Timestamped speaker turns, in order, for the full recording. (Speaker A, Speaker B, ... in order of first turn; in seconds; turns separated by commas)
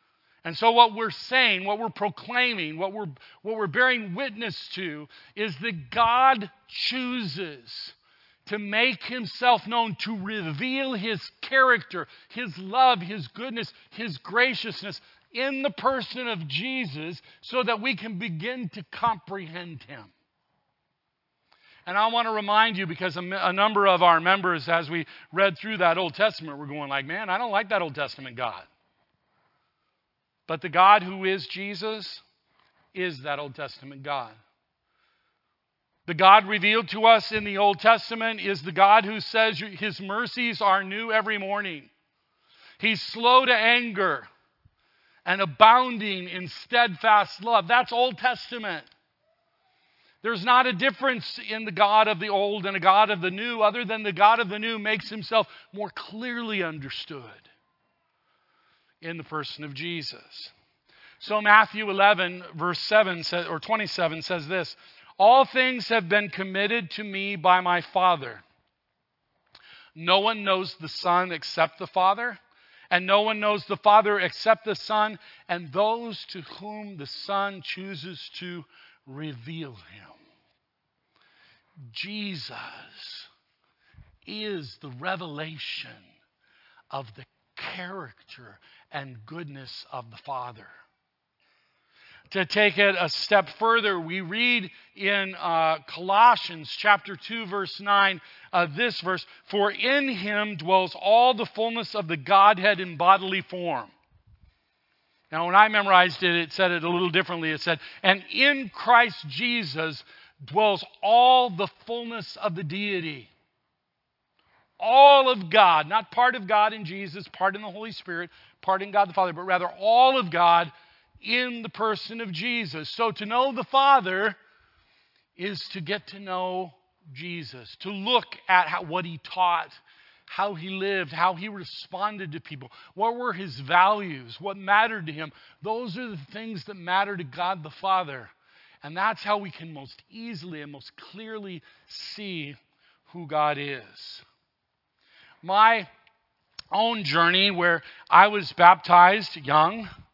Speaker A: 0.4-20.1, Speaker A: 21.9-28.7, Speaker A: 30.5-32.2, Speaker A: 32.9-34.4, Speaker A: 36.0-41.9, Speaker A: 42.8-44.3, Speaker A: 45.2-48.9, Speaker A: 50.2-57.5, Speaker A: 59.0-60.5, Speaker A: 61.2-68.4, Speaker A: 69.9-72.4, Speaker A: 72.9-80.2, Speaker A: 81.9-83.3, Speaker A: 84.2-86.1, Speaker A: 86.9-90.7, Speaker A: 92.3-103.9, Speaker A: 105.3-113.3, Speaker A: 114.8-124.4, Speaker A: 125.3-144.2, Speaker A: 145.4-145.9, Speaker A: 146.7-149.9